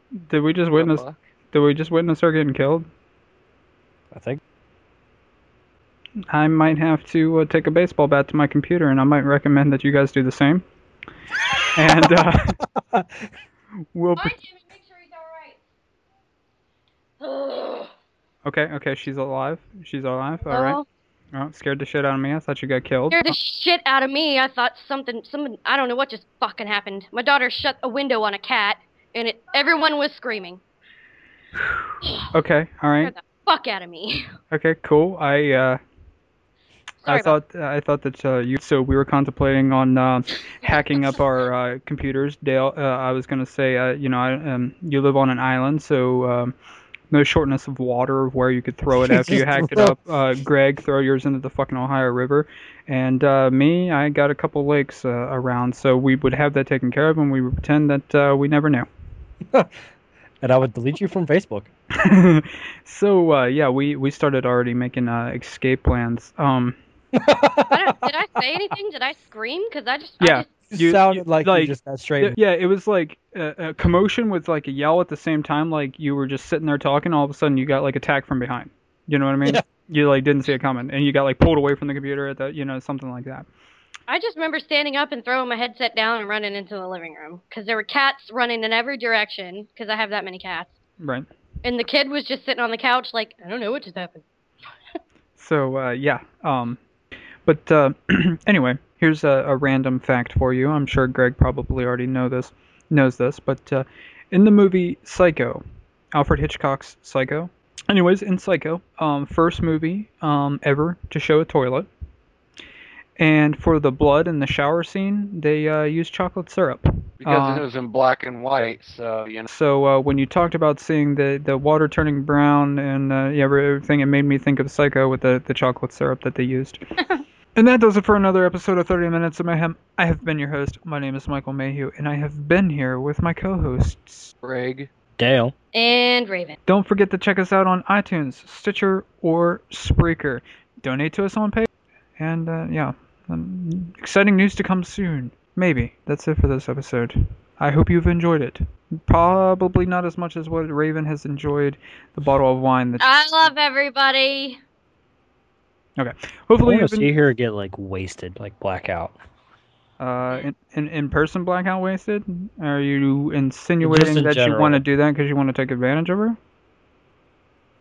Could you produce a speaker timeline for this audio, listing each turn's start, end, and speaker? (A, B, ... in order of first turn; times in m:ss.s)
0:00.2-0:02.9 A
0:00.8-0:01.2 B
0:04.1-0:04.4 C
0:06.3-0:10.6 A
0:11.8-0:12.6 A
0:12.0-0:13.3 C
0:13.9-0:14.4 A
0:14.2-0:15.6 D
0:17.2-0:17.9 D
0:18.4-0:20.8 A
0:20.5-0:20.8 D
0:21.3-0:23.4 A
0:23.1-0:30.6 D
0:31.6-0:33.1 A
0:32.0-0:32.3 D
0:33.0-0:34.3 D
0:34.5-0:35.8 A
0:37.0-0:37.4 D
0:37.0-0:46.5 A
0:47.1-0:58.9 A
0:48.9-0:50.0 C
0:59.5-0:59.8 C
1:00.4-1:01.7 C
1:02.0-1:06.8 A
1:07.1-1:08.0 C
1:07.7-1:10.5 D
1:10.2-1:23.5 A
1:10.7-1:12.4 C
1:24.1-1:30.7 D
1:31.0-1:31.3 A
1:31.6-1:34.2 D
1:35.4-1:36.8 A
1:37.4-1:45.6 A
1:46.1-1:51.9 A
1:53.2-1:57.6 A
1:57.2-1:59.5 B
1:59.5-2:06.8 A
2:07.6-2:14.3 A
2:14.4-2:14.9 B
2:15.2-2:15.5 C
2:15.7-2:16.6 D
2:16.7-2:33.5 A
2:33.0-2:34.6 D
2:36.0-2:37.1 A
2:36.6-2:39.2 C
2:40.0-2:46.4 A
2:43.8-2:44.8 C